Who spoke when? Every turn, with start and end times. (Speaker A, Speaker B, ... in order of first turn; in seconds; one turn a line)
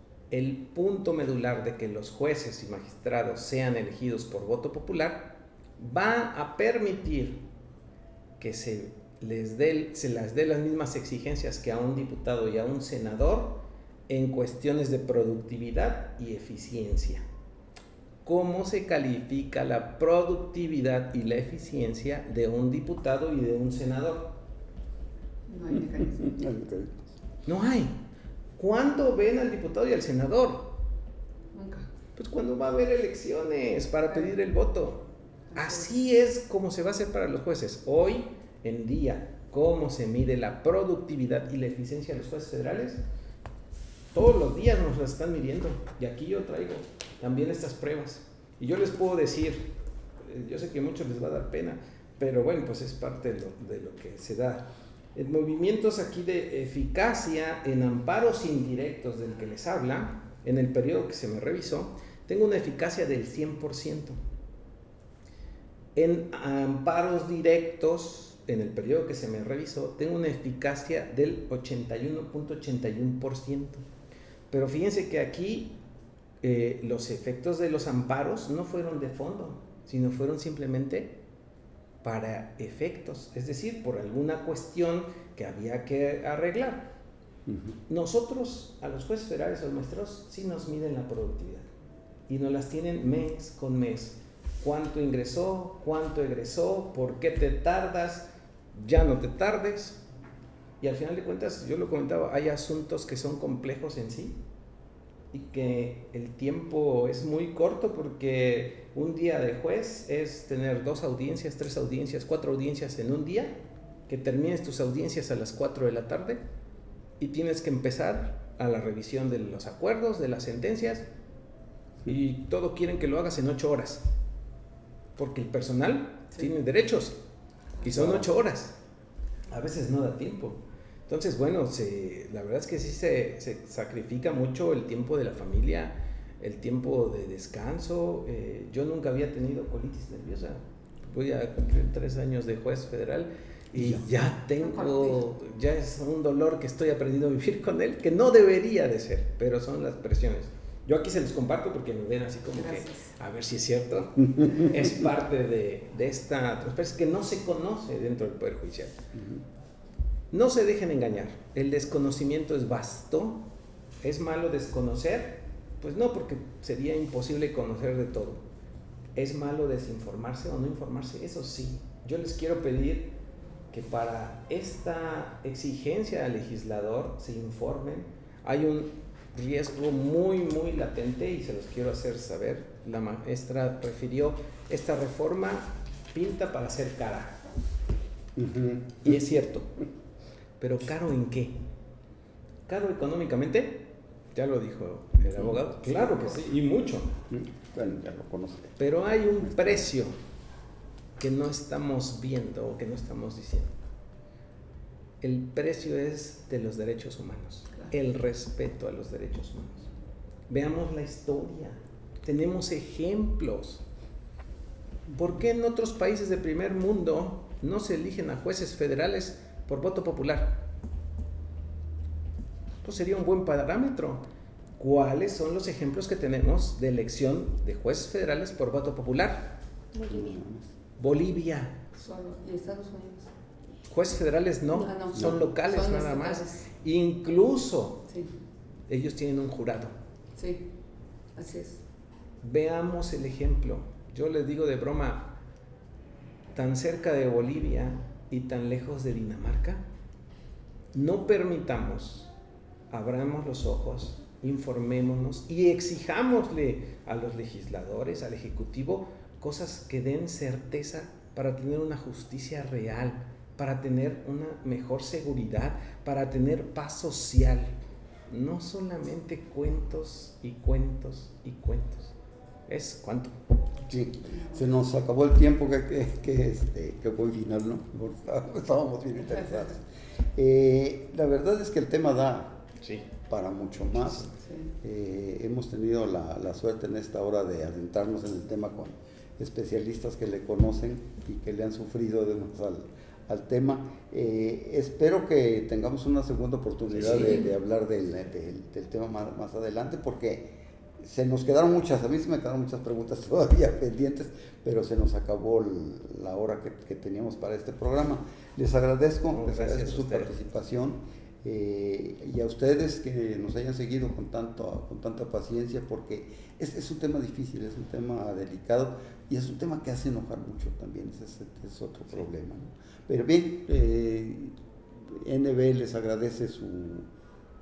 Speaker A: 0.3-7.4
Speaker A: 8.4-17.2
Speaker A: 18.2-24.4
Speaker B: 25.5-26.4
Speaker C: 26.2-27.1
Speaker A: 27.5-27.9
Speaker A: 28.6-30.8
Speaker B: 31.5-31.9
Speaker A: 32.2-43.0
Speaker B: 35.5-35.9
Speaker A: 44.1-64.2
Speaker A: 66.0-73.8
Speaker A: 74.5-75.8
Speaker A: 76.4-81.2
Speaker A: 82.0-86.9
Speaker C: 87.5-87.8
Speaker A: 87.9-91.7
Speaker A: 92.3-100.0
Speaker A: 100.8-104.4
Speaker A: 105.3-116.4
Speaker A: 117.2-121.1
Speaker A: 122.0-124.0
Speaker A: 125.2-127.2
Speaker A: 127.8-128.8
Speaker C: 127.8-128.3
Speaker A: 129.5-159.0
Speaker C: 143.7-144.0
Speaker B: 144.6-145.2
Speaker B: 152.5-153.1
Speaker C: 159.1-159.4
Speaker A: 160.3-163.4
Speaker A: 164.0-168.4
Speaker A: 169.2-173.1
Speaker A: 173.7-187.4
Speaker C: 188.4-189.2
Speaker A: 189.0-189.8
Speaker A: 190.6-191.6
Speaker A: 192.7-197.1
Speaker C: 195.2-195.6
Speaker C: 197.3-198.8
Speaker A: 198.8-200.2
Speaker C: 199.4-199.9
Speaker A: 201.2-203.8
Speaker A: 205.2-209.9
Speaker A: 210.5-213.8
Speaker A: 215.1-220.6
Speaker A: 222.8-224.2
Speaker A: 224.8-229.5
Speaker C: 230.1-230.7
Speaker A: 231.0-231.8
Speaker B: 231.9-233.3
Speaker A: 233.9-238.0
Speaker B: 234.7-236.7
Speaker A: 238.9-239.9
Speaker B: 240.4-240.6
Speaker B: 241.4-241.8
Speaker A: 242.4-245.3
Speaker A: 246.5-249.8
Speaker A: 250.9-252.3
Speaker A: 252.9-267.7
Speaker A: 268.3-272.1
Speaker A: 272.7-273.4
Speaker C: 273.9-282.6
Speaker B: 274.3-274.6
Speaker A: 282.8-283.1
Speaker C: 283.2-284.3
Speaker B: 284.4-284.7
Speaker C: 284.8-327.1
Speaker A: 309.3-310.3